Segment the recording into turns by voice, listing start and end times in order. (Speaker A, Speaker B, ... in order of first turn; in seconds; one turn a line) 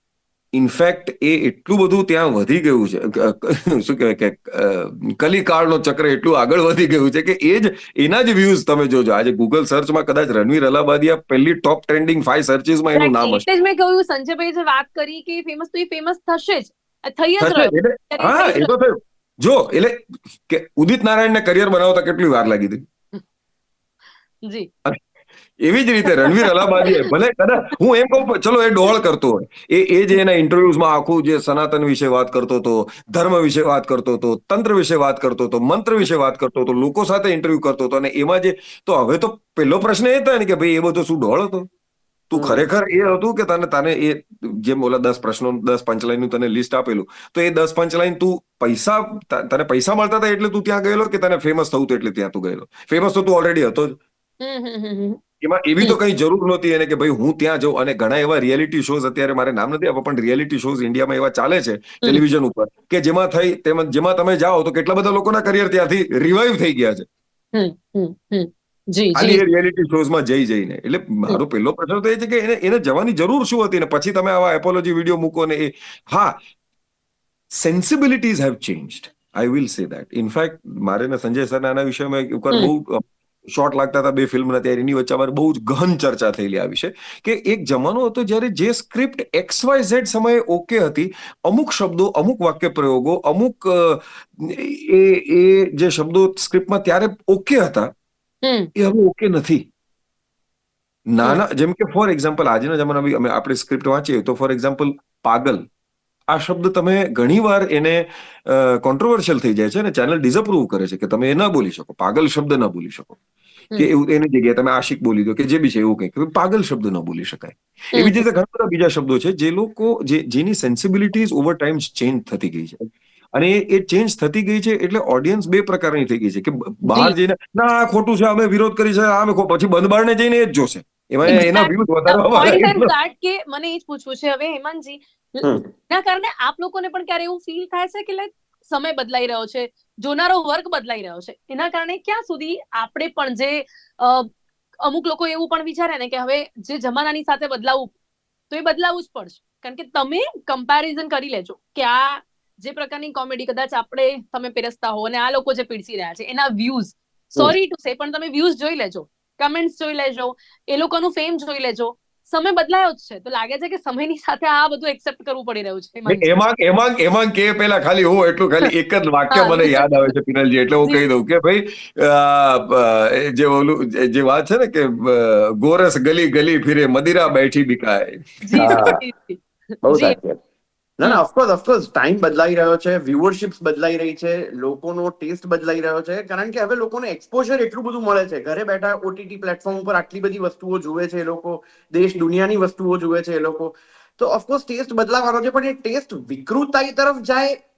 Speaker A: 0.5-13.5
Speaker B: 12.9-18.7
Speaker A: 17.4-22.8
Speaker A: 25.6-41.7
Speaker B: 26.2-27.1
Speaker A: 42.3-54.0
Speaker C: 42.3-42.6
Speaker B: 54.4-55.2
Speaker A: 55.4-67.1
Speaker B: 67.5-69.4
Speaker A: 69.1-76.4
Speaker A: 77.5-97.9
Speaker B: 98.4-98.7
Speaker A: 98.8-99.6
Speaker A: 101.1-105.6
Speaker A: 106.3-113.2
Speaker A: 113.8-132.9
Speaker B: 117.9-118.2
Speaker B: 126.9-127.1
Speaker B: 131.3-144.3
Speaker C: 135.4-135.7
Speaker B: 144.8-147.9
Speaker B: 148.5-166.3
Speaker A: 166.1-178.8
Speaker B: 169.3-170.1
Speaker B: 178.4-180.2
Speaker C: 178.6-179.0
Speaker C: 179.8-180.4
Speaker C: 181.0-197.6